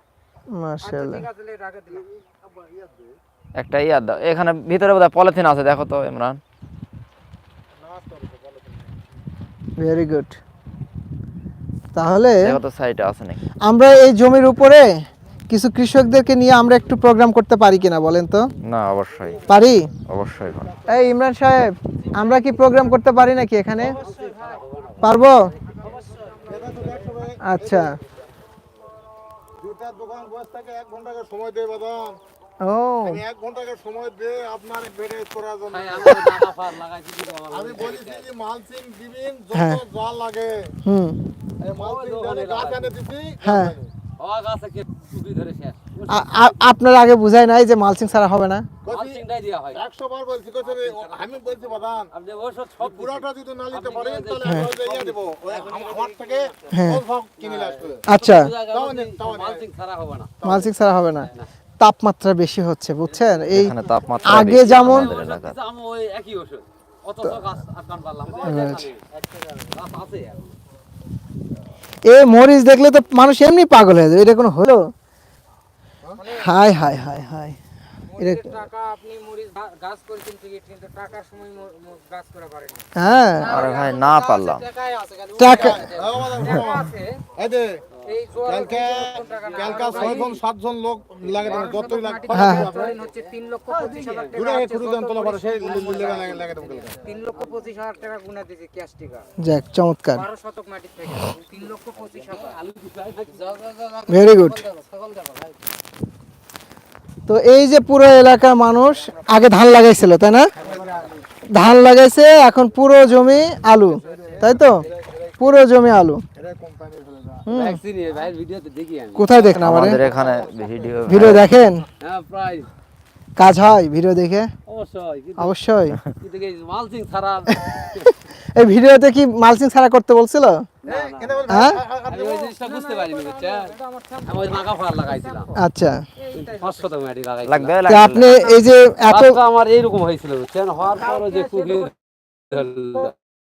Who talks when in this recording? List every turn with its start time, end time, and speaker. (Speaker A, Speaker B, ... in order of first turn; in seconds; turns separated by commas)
Speaker A: 0.5-1.3, Speaker B: 0.8-2.1, Speaker C: 2.5-3.1, Speaker D: 3.6-6.4, Speaker C: 7.7-8.9, Speaker A: 9.8-10.4, Speaker A: 11.9-12.6, Speaker D: 12.4-13.5, Speaker A: 13.7-14.9, Speaker A: 15.5-18.5, Speaker D: 18.6-19.5, Speaker A: 19.5-19.9, Speaker D: 20.1-20.8, Speaker A: 20.9-24.0, Speaker B: 22.1-22.4, Speaker B: 23.8-24.6, Speaker E: 24.0-25.4, Speaker A: 25.0-25.4, Speaker B: 25.7-26.9, Speaker C: 26.5-28.0, Speaker A: 27.4-27.9, Speaker C: 29.6-32.2, Speaker A: 32.6-33.2, Speaker C: 33.0-36.5, Speaker E: 35.7-38.3, Speaker C: 37.5-40.7, Speaker A: 39.5-39.8, Speaker A: 40.9-41.2, Speaker C: 41.6-43.9, Speaker E: 41.7-43.0, Speaker A: 43.4-43.8, Speaker E: 44.2-46.7, Speaker A: 46.1-48.7, Speaker C: 48.9-49.2, Speaker E: 48.9-49.8, Speaker C: 49.7-52.1, Speaker E: 50.6-56.0, Speaker C: 52.8-58.0, Speaker B: 55.5-56.5, Speaker A: 56.7-57.0, Speaker E: 57.4-60.4, Speaker A: 58.1-58.5, Speaker C: 58.6-59.6, Speaker C: 60.4-60.7, Speaker A: 60.4-61.3, Speaker A: 61.8-63.8, Speaker D: 63.5-65.6, Speaker A: 64.3-65.1, Speaker E: 64.4-70.5, Speaker C: 68.4-68.7, Speaker A: 68.5-68.9, Speaker A: 72.1-74.9, Speaker B: 76.2-76.5, Speaker A: 76.4-77.6, Speaker B: 78.1-87.2, Speaker A: 78.2-78.5, Speaker A: 83.0-83.6, Speaker D: 83.5-84.7, Speaker A: 85.4-85.9, Speaker C: 85.4-87.8, Speaker B: 88.0-90.4, Speaker C: 88.4-93.0, Speaker E: 89.6-90.4, Speaker B: 91.3-99.3, Speaker E: 91.4-91.7, Speaker A: 92.3-92.7, Speaker E: 92.6-93.0, Speaker E: 93.7-94.4, Speaker C: 94.3-97.0, Speaker E: 96.1-96.5, Speaker A: 99.4-100.2, Speaker B: 100.1-102.6, Speaker E: 102.1-103.8, Speaker B: 103.7-105.5, Speaker A: 104.1-104.7, Speaker A: 107.3-110.5, Speaker C: 110.6-111.2, Speaker E: 110.6-110.9, Speaker A: 111.5-114.8, Speaker C: 113.8-115.3, Speaker A: 115.4-116.2, Speaker C: 116.3-117.5, Speaker A: 117.5-117.8, Speaker E: 117.5-120.5, Speaker A: 119.2-120.0, Speaker D: 119.6-121.5, Speaker C: 119.8-121.4, Speaker A: 121.1-121.8, Speaker E: 122.0-122.7, Speaker A: 123.4-124.5, Speaker E: 124.7-125.5, Speaker A: 125.4-126.0, Speaker E: 126.2-128.1, Speaker A: 127.8-130.7, Speaker E: 130.8-131.5, Speaker C: 130.8-132.6, Speaker A: 131.5-131.8, Speaker E: 132.1-133.8, Speaker B: 132.3-135.6, Speaker E: 134.3-135.5, Speaker A: 135.6-136.0, Speaker B: 136.2-136.9, Speaker E: 136.4-137.8, Speaker D: 137.4-138.4, Speaker A: 137.9-139.4, Speaker E: 139.1-141.9, Speaker B: 141.0-141.9, Speaker E: 142.5-143.1